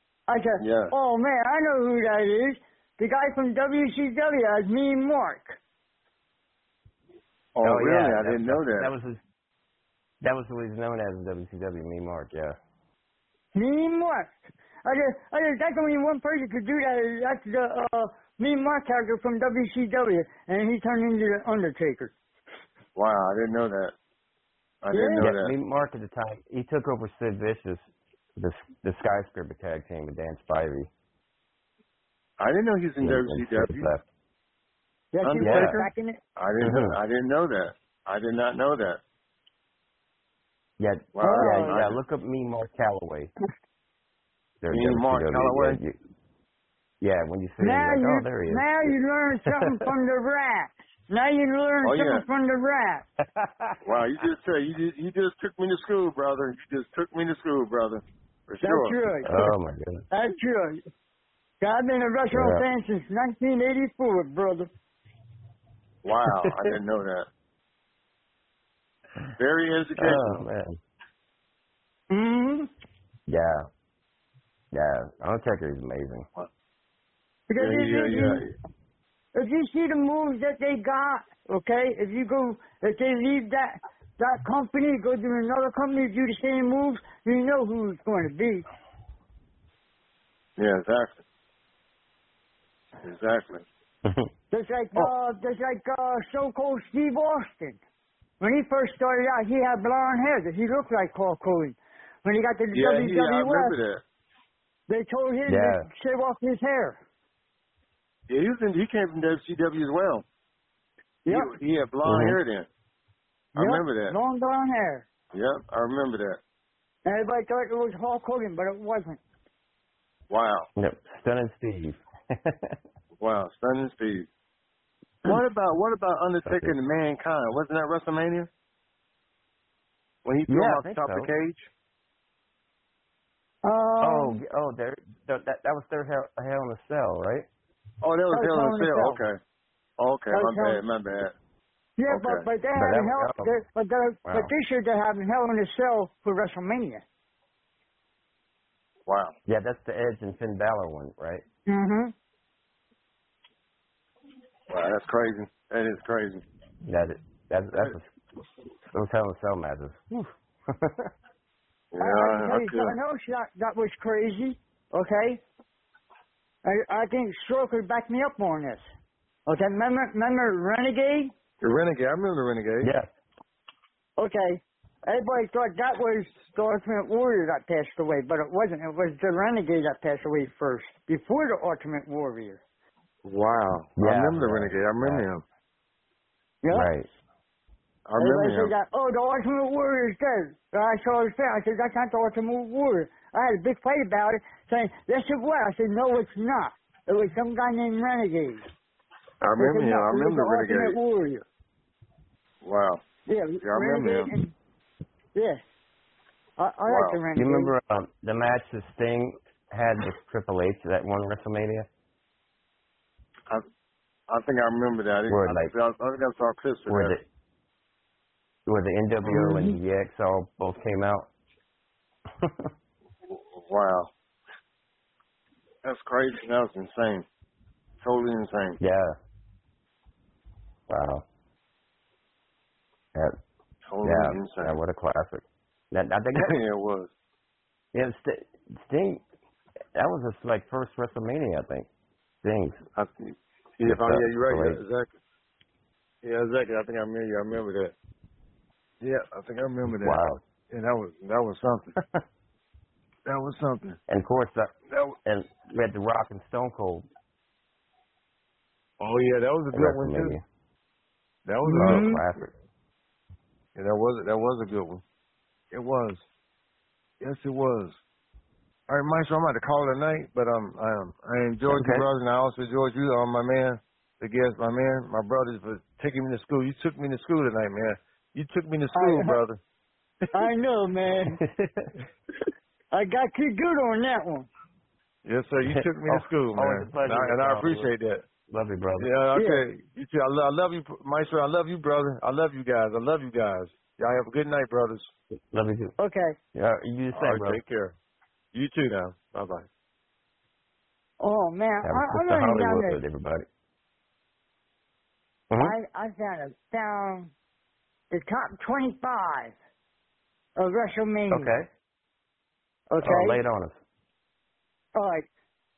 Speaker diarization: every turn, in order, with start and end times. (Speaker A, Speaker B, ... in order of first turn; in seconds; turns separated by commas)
Speaker A: 0.3-5.6, Speaker B: 0.6-0.9, Speaker B: 7.5-8.9, Speaker C: 7.6-9.2, Speaker C: 10.2-12.6, Speaker A: 13.5-22.1, Speaker B: 23.0-23.9, Speaker B: 24.8-25.5, Speaker A: 24.9-25.3, Speaker C: 25.2-30.9, Speaker B: 32.4-33.9, Speaker C: 33.0-34.0, Speaker A: 35.1-36.2, Speaker B: 35.2-39.0, Speaker C: 35.4-35.8, Speaker C: 36.6-37.0, Speaker C: 40.8-43.3, Speaker B: 41.1-42.0, Speaker A: 41.2-41.8, Speaker C: 44.6-46.0, Speaker B: 44.7-45.8, Speaker C: 47.0-49.0, Speaker A: 47.6-53.1, Speaker C: 49.5-49.8, Speaker B: 51.8-52.2, Speaker C: 53.2-53.8, Speaker B: 53.8-59.1, Speaker A: 58.6-59.5, Speaker C: 59.2-60.0, Speaker A: 60.1-60.8, Speaker A: 61.6-64.7, Speaker C: 62.3-62.6, Speaker B: 66.0-67.3, Speaker C: 66.3-66.8, Speaker B: 69.4-70.5, Speaker C: 70.0-70.8, Speaker A: 72.1-72.7, Speaker C: 73.3-73.7, Speaker C: 74.7-76.3, Speaker A: 77.5-78.5, Speaker B: 77.6-78.5, Speaker A: 79.3-88.7, Speaker B: 90.6-91.2, Speaker B: 93.0-93.6, Speaker A: 94.5-97.8, Speaker A: 98.4-103.8, Speaker B: 102.7-104.0, Speaker A: 104.9-107.0, Speaker C: 105.5-105.9, Speaker B: 108.3-110.2, Speaker B: 111.3-112.7, Speaker C: 112.0-112.4, Speaker B: 113.5-114.2, Speaker A: 113.6-115.1, Speaker B: 115.3-116.4, Speaker A: 117.0-119.2, Speaker B: 120.3-120.7, Speaker C: 120.8-122.8, Speaker B: 123.2-124.3, Speaker B: 125.2-128.5, Speaker C: 126.5-126.8, Speaker B: 130.2-131.7, Speaker C: 130.5-131.3, Speaker A: 133.6-134.4, Speaker C: 134.0-137.5, Speaker B: 138.0-139.4, Speaker A: 138.3-139.2, Speaker B: 140.0-141.3, Speaker A: 140.3-140.8, Speaker A: 142.0-147.0, Speaker B: 142.1-142.5, Speaker C: 142.8-143.6, Speaker B: 149.1-149.3, Speaker C: 149.5-151.4, Speaker A: 151.7-152.1, Speaker B: 154.7-156.4, Speaker C: 156.8-158.1, Speaker C: 158.9-161.1, Speaker B: 161.9-163.0, Speaker A: 162.0-165.4, Speaker A: 166.7-168.8, Speaker A: 169.5-171.3, Speaker B: 171.6-172.9, Speaker C: 172.8-173.1, Speaker A: 174.2-182.6, Speaker B: 183.2-185.4, Speaker C: 184.0-185.2, Speaker A: 186.6-186.9, Speaker C: 186.7-187.1, Speaker B: 188.1-188.7, Speaker A: 188.2-198.7, Speaker B: 199.4-201.0, Speaker A: 199.6-201.4, Speaker B: 202.6-203.0, Speaker A: 203.3-204.5, Speaker B: 203.6-204.3, Speaker A: 205.3-205.6, Speaker A: 206.6-207.7, Speaker B: 206.9-207.2, Speaker C: 207.3-211.9, Speaker B: 214.3-217.2, Speaker C: 215.3-215.7, Speaker C: 216.9-217.2, Speaker C: 218.7-221.3, Speaker A: 219.3-219.8, Speaker C: 222.4-222.7, Speaker B: 223.3-224.1, Speaker B: 225.8-227.2, Speaker B: 228.0-228.8, Speaker C: 228.8-229.2, Speaker C: 230.9-231.2, Speaker B: 233.9-234.8, Speaker C: 234.0-236.6, Speaker B: 236.4-237.1, Speaker C: 237.9-239.2, Speaker C: 240.0-241.9, Speaker C: 242.4-242.8, Speaker B: 243.0-245.1, Speaker C: 243.8-244.8, Speaker B: 246.2-247.9, Speaker B: 249.0-251.9, Speaker C: 249.9-250.4, Speaker B: 253.3-254.0, Speaker C: 254.1-257.1, Speaker B: 254.9-255.2, Speaker B: 259.0-260.4, Speaker C: 259.7-260.4, Speaker B: 261.5-262.1, Speaker A: 261.6-262.2, Speaker C: 261.6-262.5, Speaker B: 263.8-265.0, Speaker B: 265.7-266.2, Speaker B: 267.2-268.0, Speaker B: 268.9-279.6, Speaker C: 271.7-272.1, Speaker A: 278.9-279.4, Speaker A: 280.3-281.4, Speaker C: 281.3-281.9, Speaker A: 282.9-284.5, Speaker B: 285.3-288.2, Speaker C: 285.7-287.9, Speaker C: 288.5-289.1, Speaker B: 289.0-295.1, Speaker A: 289.4-289.6, Speaker C: 295.5-295.9, Speaker A: 296.0-296.4, Speaker C: 296.5-297.6, Speaker B: 297.1-297.9, Speaker B: 298.5-299.7, Speaker A: 301.2-303.0, Speaker C: 301.8-303.5, Speaker C: 305.5-305.8, Speaker A: 305.6-307.3, Speaker A: 308.1-309.6, Speaker A: 310.6-311.5, Speaker C: 311.3-311.7, Speaker A: 312.9-313.4, Speaker C: 313.0-313.8, Speaker A: 314.9-315.3